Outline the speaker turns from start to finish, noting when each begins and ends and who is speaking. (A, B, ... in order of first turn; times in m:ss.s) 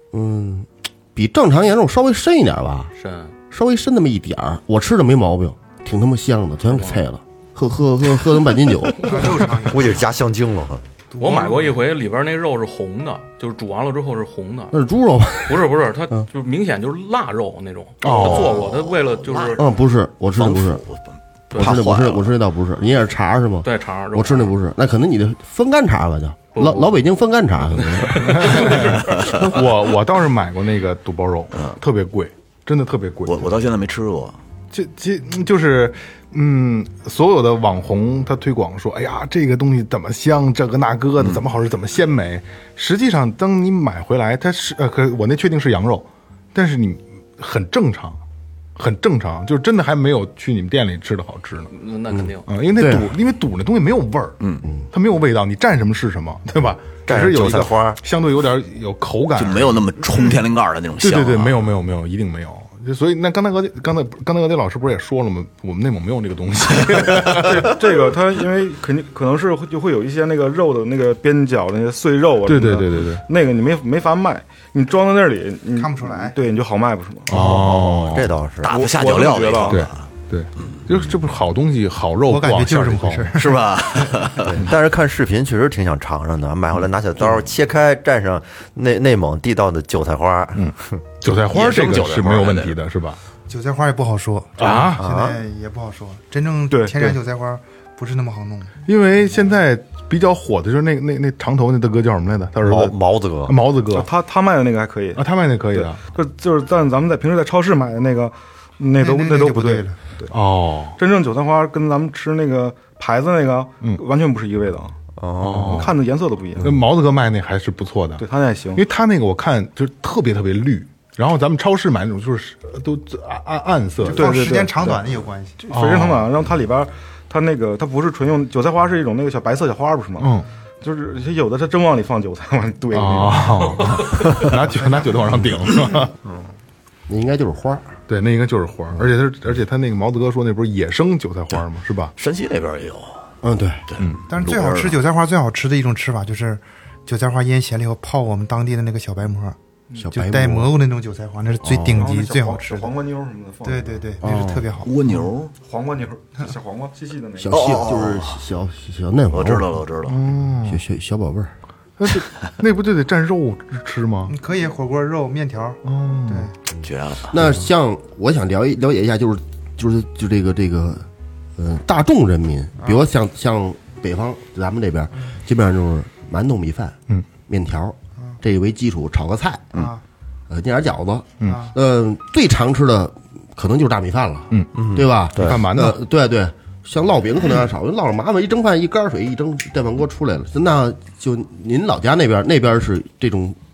0:00.1-0:02.9 A
0:03.0-0:03.3 B
0:03.5-0:09.4 A
0:06.7-0:07.0 B
0:09.0-0:10.0 C
0:09.6-0:10.8 D
0:11.1-0:11.7 C
0:11.2-0:14.8 B
0:14.7-0:16.3 A
0:15.5-0:19.7 B
0:18.0-0:18.6 E
0:18.0-0:19.6 F
0:19.6-0:20.8 A
0:20.4-0:22.3 F
0:21.5-0:21.8 B
0:21.6-0:29.5 A
0:23.6-0:24.5 B
0:26.6-0:26.9 B
0:28.0-0:28.8 B
0:28.2-0:33.6 E
0:29.0-0:29.3 F
0:31.5-0:31.8 F
0:33.3-0:34.4 F
0:34.7-0:48.2 E
0:48.8-0:51.7 E
0:51.7-0:52.5 B
0:52.1-0:53.1 A
0:52.5-0:54.4 E
0:54.9-1:00.4 E
0:57.1-0:58.0 D
0:59.4-1:01.7 F
1:01.0-1:07.8 E
1:07.3-1:17.5 G
1:12.5-1:13.2 E
1:15.8-1:16.4 C
1:17.3-1:18.4 E
1:17.3-1:18.8 D
1:18.6-1:20.1 F
1:18.7-1:19.8 G
1:19.7-1:23.4 E
1:22.3-1:24.2 C
1:23.4-1:24.6 F
1:24.5-1:30.7 D
1:30.6-1:33.2 E
1:31.5-1:32.8 F
1:33.5-1:38.8 C
1:34.6-1:35.0 E
1:35.0-1:35.4 D
1:36.7-1:37.1 G
1:38.9-1:43.0 E
1:42.6-1:43.6 D
1:43.5-1:44.1 E
1:43.9-1:50.4 G
1:45.2-1:46.0 E
1:49.0-1:50.0 C
1:50.3-1:51.0 E
1:51.0-1:54.9 G
1:55.2-1:55.9 D
1:55.4-1:55.9 E
1:55.6-1:56.8 G
1:56.6-2:04.5 E
1:58.2-1:58.8 G
2:04.0-2:05.6 C
2:04.1-2:05.0 G
2:05.6-2:14.0 G
2:05.7-2:06.3 E
2:10.2-2:10.5 E
2:12.9-2:16.4 E
2:17.1-2:17.9 A
2:18.1-2:22.1 E
2:22.2-2:23.2 F
2:23.4-2:23.8 A
2:23.9-2:25.0 F
2:24.3-2:29.6 C
2:30.0-2:30.7 A
2:30.1-2:32.9 C
2:31.6-2:32.0 A
2:31.9-2:34.1 G
2:33.6-2:34.9 C
2:34.2-2:34.7 A
2:34.8-2:35.5 F
2:35.6-2:37.6 G
2:37.4-2:39.8 A
2:37.5-2:38.4 F
2:39.3-2:40.2 F
2:40.1-2:40.8 E
2:40.7-2:41.5 A
2:42.0-2:44.3 E
2:44.3-2:46.5 C
2:45.8-2:46.5 E
2:46.8-2:47.4 F
2:47.3-2:59.9 A
2:52.8-2:53.1 C
2:59.7-3:00.0 C
3:00.5-3:13.6 A
3:01.4-3:01.7 C
3:04.8-3:05.6 D
3:05.4-3:06.0 E